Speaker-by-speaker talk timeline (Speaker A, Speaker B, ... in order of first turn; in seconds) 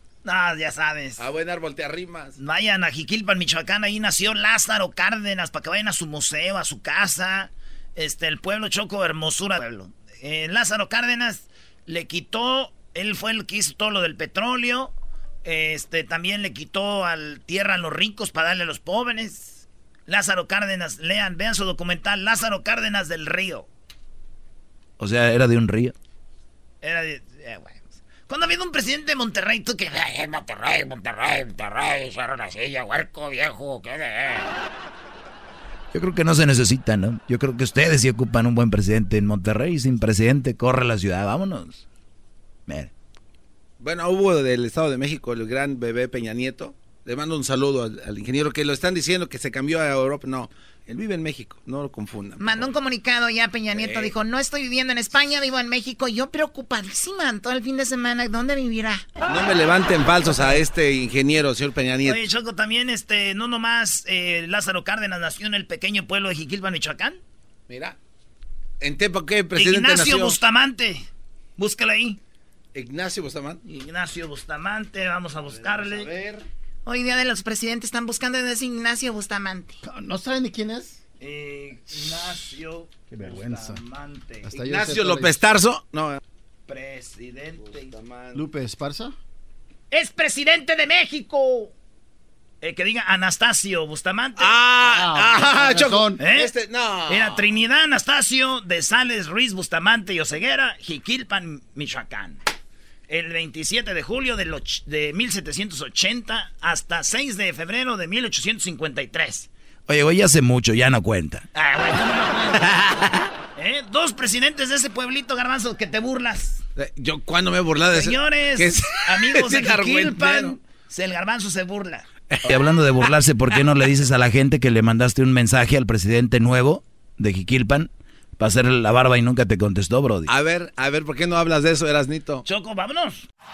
Speaker A: 0.2-1.2, 2.4-23.7, 26.8-34.5, 62.0-67.2, 69.6-71.1, 71.6-72.2, 73.7-76.1, 81.2-84.5, 86.7-88.0, 89.9-91.7, 92.6-94.6, 96.2-96.5, 97.1-102.4, 103.1-109.5, 111.5-112.9, 113.6-116.6, 118.0-122.1, 132.5-133.3
Speaker B: 1.2-2.4, 43.8-52.7, 53.7-54.1, 59.3-62.2, 67.7-68.0, 68.8-70.4, 72.8-73.6, 84.6-86.2, 87.9-88.4, 94.4-97.4, 116.8-120.6, 130.3-132.4
Speaker C: 25.0-25.9, 35.9-41.8, 109.9-111.5, 122.5-130.3
Speaker D: 52.4-59.0, 76.9-79.8
Speaker E: 75.8-76.3, 79.8-81.0, 83.1-83.8, 84.4-85.5, 88.3-89.1, 94.8-96.2